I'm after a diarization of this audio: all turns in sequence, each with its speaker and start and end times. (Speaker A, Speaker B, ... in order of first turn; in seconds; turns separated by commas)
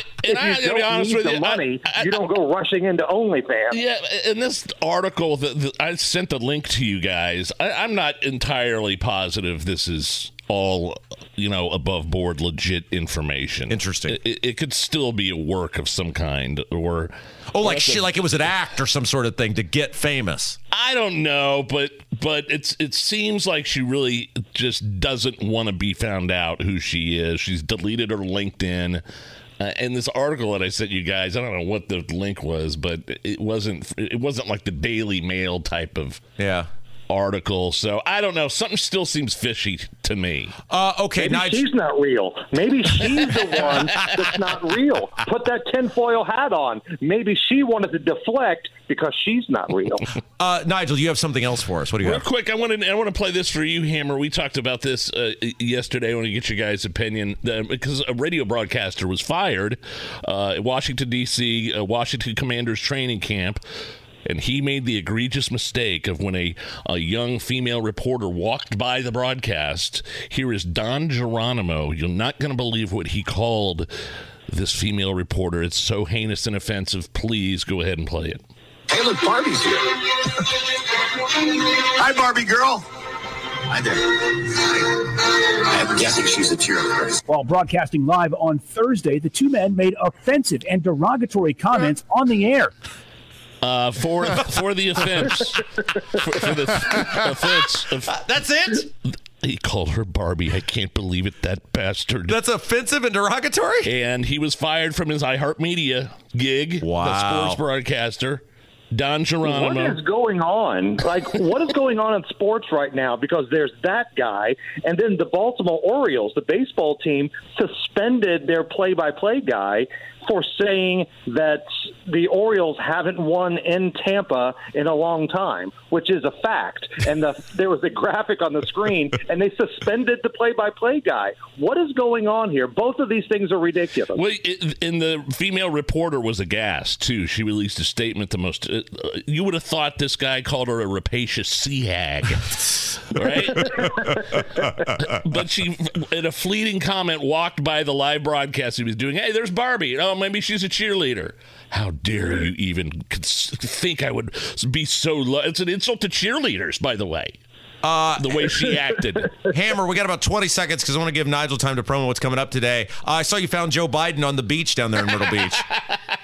Speaker A: 0.2-2.2, Speaker B: 0.2-3.8, Speaker A: 3.7-18.2, Speaker C: 13.7-14.2, Speaker C: 17.5-20.6, Speaker A: 20.7-29.0, Speaker A: 29.6-36.2, Speaker C: 36.4-36.7, Speaker A: 37.1-40.6, Speaker C: 40.7-41.7, Speaker B: 41.2-50.0, Speaker A: 43.7-44.1, Speaker C: 50.4-52.2, Speaker A: 52.0-63.6, Speaker A: 64.2-73.9, Speaker A: 74.5-78.4, Speaker D: 78.9-80.5, Speaker D: 81.5-82.8, Speaker D: 83.7-87.2, Speaker E: 87.3-92.7, Speaker A: 93.6-98.2, Speaker C: 98.1-98.9, Speaker A: 99.4-102.4, Speaker C: 102.3-103.9, Speaker A: 103.8-110.0, Speaker C: 106.8-107.6, Speaker B: 109.4-134.2, Speaker A: 134.1-144.2, Speaker A: 145.0-157.4, Speaker C: 157.8-158.5, Speaker A: 158.2-159.5, Speaker C: 159.4-165.7